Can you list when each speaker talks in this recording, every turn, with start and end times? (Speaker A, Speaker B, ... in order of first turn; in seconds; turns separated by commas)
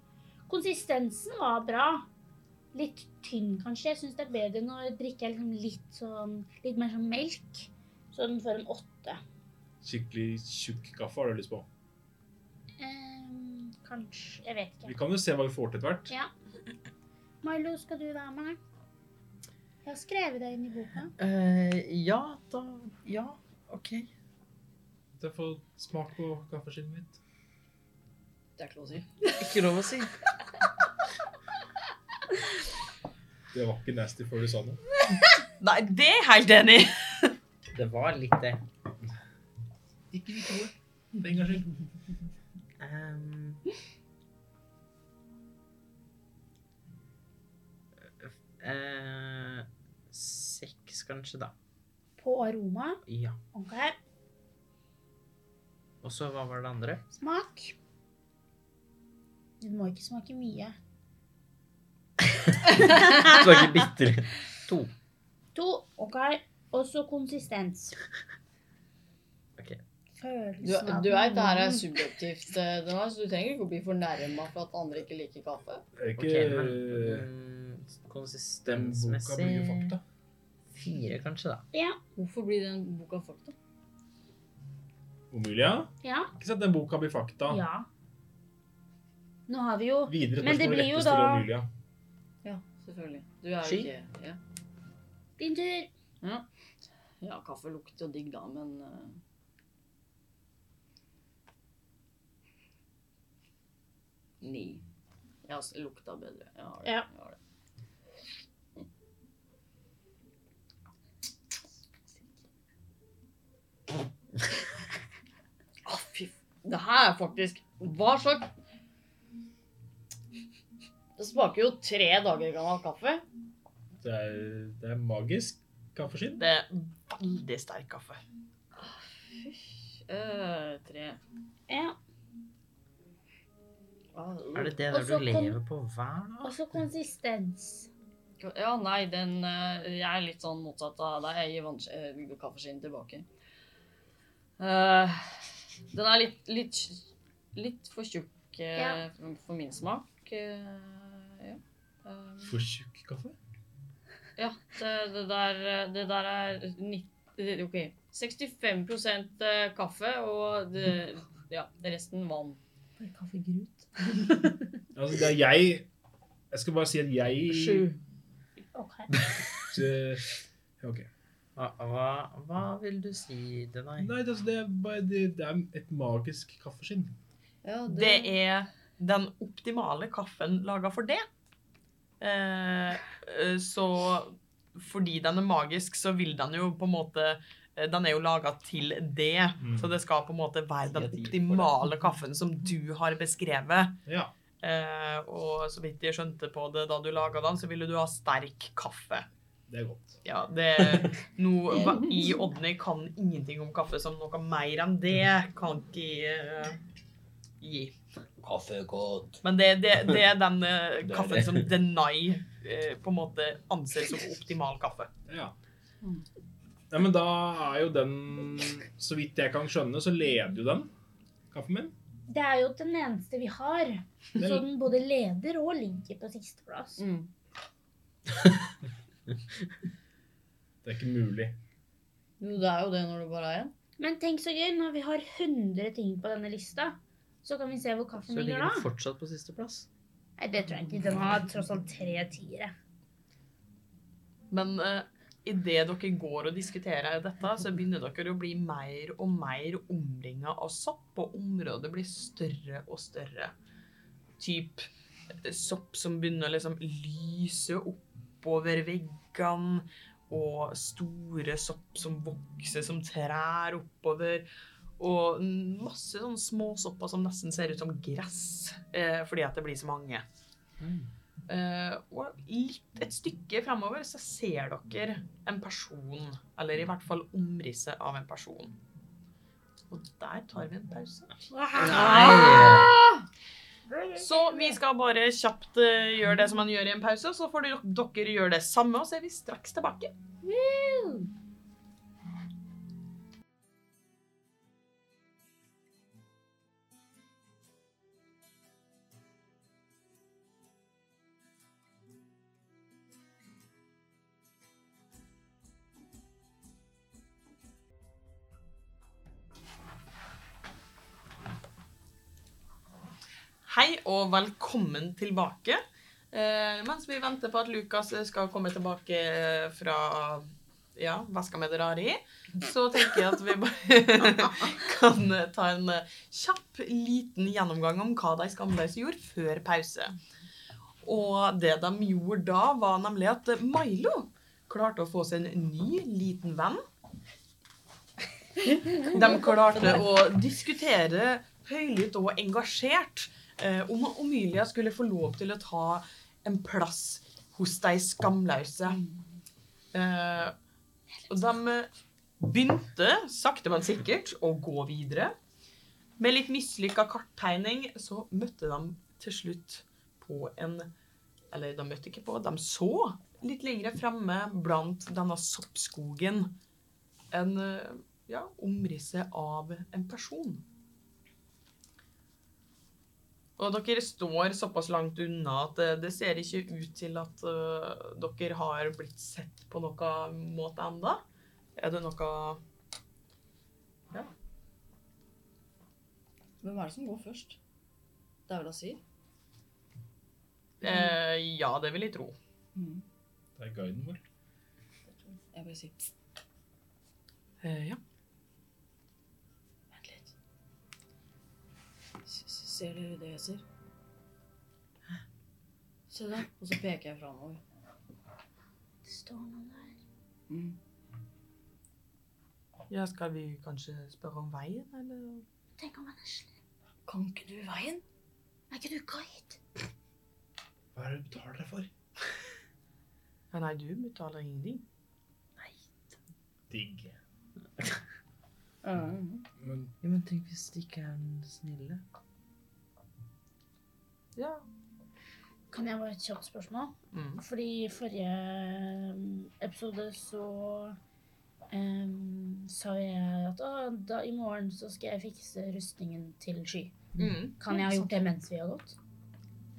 Speaker A: 0.5-2.1, Speaker A: 2.7-9.2, Speaker B: 9.8-11.7, Speaker A: 12.8-14.9, Speaker B: 14.8-16.1, Speaker A: 17.4-18.6, Speaker A: 19.8-21.1, Speaker C: 21.2-24.1, Speaker B: 25.2-27.2, Speaker D: 28.6-29.5, Speaker C: 29.4-30.1, Speaker B: 33.5-34.8, Speaker E: 35.6-37.3, Speaker C: 37.7-38.6, Speaker B: 40.1-41.7, Speaker C: 42.8-43.6, Speaker C: 48.2-51.5, Speaker A: 52.2-54.0, Speaker C: 53.1-53.4, Speaker C: 56.0-57.0, Speaker A: 57.1-57.8, Speaker A: 59.6-60.8, Speaker C: 62.6-64.9, Speaker A: 65.5-68.0, Speaker C: 69.6-69.8, Speaker A: 70.2-71.9, Speaker D: 70.6-75.8, Speaker B: 76.0-77.2, Speaker C: 76.2-79.9, Speaker B: 78.7-80.0, Speaker C: 80.7-81.7, Speaker A: 81.7-82.0, Speaker D: 82.2-83.5, Speaker B: 85.3-87.6, Speaker A: 86.0-86.3, Speaker A: 87.5-87.9, Speaker A: 89.5-91.5, Speaker B: 90.1-91.7, Speaker D: 92.4-94.4, Speaker C: 93.6-93.9, Speaker A: 95.4-95.9, Speaker D: 97.2-99.2, Speaker D: 104.4-104.8, Speaker D: 105.4-107.4, Speaker D: 115.8-118.5, Speaker D: 121.2-123.2, Speaker B: 124.0-126.4, Speaker E: 126.4-128.2, Speaker D: 128.8-131.2, Speaker A: 131.7-132.0, Speaker D: 134.1-134.8, Speaker C: 134.5-136.6, Speaker A: 134.9-135.6, Speaker A: 136.4-137.9, Speaker D: 138.4-143.2, Speaker D: 144.6-152.6, Speaker A: 148.7-149.0, Speaker B: 152.4-153.3, Speaker D: 154.4-162.6, Speaker A: 163.0-164.5, Speaker B: 164.9-165.9, Speaker B: 166.5-167.8, Speaker D: 167.5-167.9, Speaker A: 168.7-169.1, Speaker B: 169.7-171.1, Speaker C: 171.6-174.1, Speaker B: 174.0-177.1, Speaker D: 177.6-178.3, Speaker E: 177.9-181.2, Speaker E: 182.2-194.0, Speaker B: 189.6-189.9, Speaker C: 190.8-191.8, Speaker B: 194.1-194.3, Speaker E: 194.6-199.2, Speaker B: 199.7-200.2, Speaker E: 200.2-206.8, Speaker E: 207.6-207.9, Speaker C: 208.4-209.4, Speaker E: 209.4-215.1, Speaker C: 211.0-211.7, Speaker B: 215.3-215.5, Speaker B: 216.9-220.9, Speaker B: 221.5-221.9, Speaker A: 222.3-227.0, Speaker B: 224.4-224.7, Speaker D: 227.0-227.3, Speaker B: 230.8-231.5, Speaker D: 232.4-233.7, Speaker A: 234.0-238.9, Speaker C: 238.3-239.9, Speaker A: 240.4-242.7, Speaker E: 244.5-253.5, Speaker E: 254.4-254.9, Speaker E: 255.4-264.4, Speaker E: 265.0-270.2, Speaker C: 270.8-271.1, Speaker E: 271.5-278.7, Speaker E: 279.9-281.4, Speaker A: 281.5-282.9, Speaker C: 281.8-282.9, Speaker D: 282.3-282.7, Speaker A: 283.9-284.5, Speaker E: 284.1-290.1, Speaker A: 290.4-291.3, Speaker E: 313.6-315.8, Speaker E: 316.3-330.1, Speaker E: 331.0-336.8, Speaker D: 338.9-339.2, Speaker E: 339.0-349.0, Speaker E: 349.9-350.5, Speaker E: 351.3-351.9, Speaker E: 352.4-355.3, Speaker E: 356.2-360.9, Speaker E: 361.5-366.5, Speaker E: 367.3-370.6, Speaker E: 373.6-381.2, Speaker E: 381.8-382.6, Speaker D: 386.6-387.6, Speaker D: 388.5-389.0, Speaker E: 390.8-392.3, Speaker D: 392.7-393.0, Speaker B: 393.6-394.2, Speaker D: 395.1-396.1, Speaker E: 397.6-398.0, Speaker D: 399.9-400.3, Speaker D: 402.2-403.6, Speaker D: 406.1-407.6, Speaker A: 409.0-409.9, Speaker D: 410.5-410.8, Speaker E: 412.9-415.4, Speaker A: 415.8-416.5, Speaker D: 417.1-418.0, Speaker A: 418.7-419.6, Speaker B: 420.9-421.9, Speaker E: 423.5-424.8, Speaker C: 425.6-426.1, Speaker B: 426.7-427.1, Speaker D: 428.8-429.4, Speaker B: 429.6-429.9, Speaker C: 430.0-432.0, Speaker E: 434.4-434.6, Speaker A: 435.7-441.0, Speaker E: 437.1-437.4, Speaker A: 441.7-446.9, Speaker E: 447.2-447.6, Speaker A: 447.6-449.0, Speaker D: 447.7-448.0